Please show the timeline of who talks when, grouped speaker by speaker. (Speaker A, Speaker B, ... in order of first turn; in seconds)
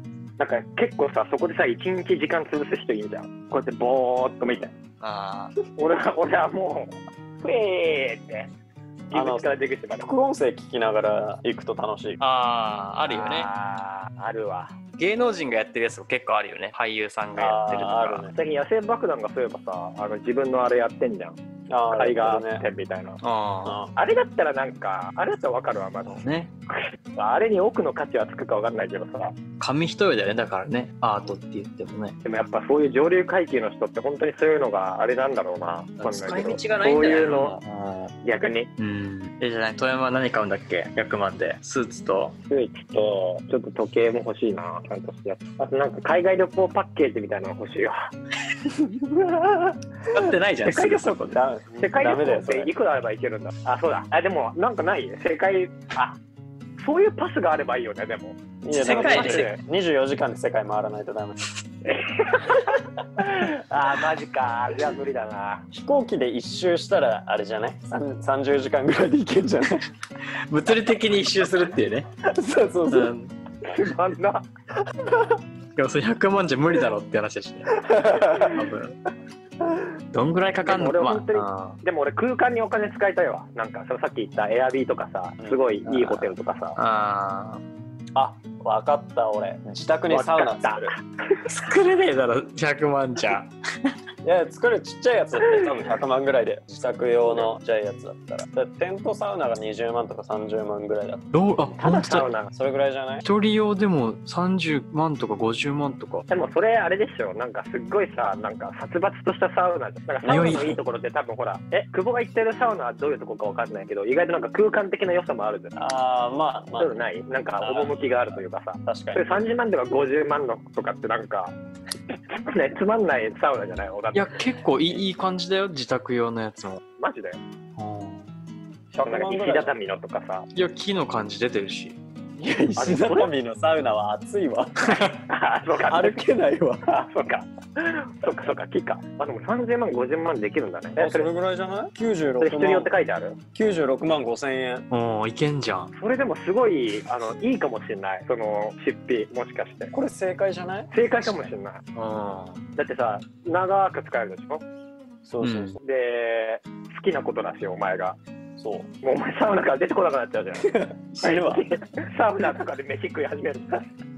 Speaker A: 0.4-4.7, 5.8-8.5, 9.1-10.1, 13.1-14.8, 18.3-21.4, 21.9-23.2, 23.9-29.3, 32.2-37.6, 38.2-38.7, 42.5-48.1, 51.7-56.2, 56.8-59.6, 61.9-65.7, 73.6-74.4, 80.6-86.8, 90.1-91.0, 101.8-102.5, 106.3-115.8, 116.8-121.5, 122.3-124.4, 127.0-127.4, 129.0-130.5, 132.8-133.3, 135.1-136.2, 136.9-141.3, 142.4-143.4, 145.9-149.9, 150.9-151.8, 152.8-154.6, 155.8-158.2, 159.0-163.9
Speaker B: 5.0-5.5, 12.2-13.5, 15.0-18.3, 23.2-23.8, 26.1-26.5, 29.6-32.2, 36.0-38.1, 38.8-42.4, 50.1-51.4, 58.7-59.5, 70.5-72.1, 72.9-73.3, 75.8-79.0, 80.1-81.8, 86.8-87.6, 91.4-93.5, 101.3-102.3, 103.2-106.2, 110.3-110.8, 124.1-126.8, 127.8-128.2, 130.5-132.0, 144.9-145.9, 151.9-152.6, 155.4-155.8
Speaker C: 9.1-12.2, 17.4-18.3, 21.7-22.6, 23.6-23.9, 50.7-52.7, 58.6-61.5, 65.7-69.9, 72.2-73.1, 75.0-75.3, 77.8-78.6, 85.4-86.3, 88.1-90.9, 94.2-101.3, 102.5-103.2, 110.2-110.8, 115.8-117.0, 117.6-119.4, 128.9-129.7, 132.4-135.1, 135.9-136.8, 141.0-142.9, 143.5-144.9, 149.9-151.5, 155.2-155.8, 158.6-158.9, 160.6-161.7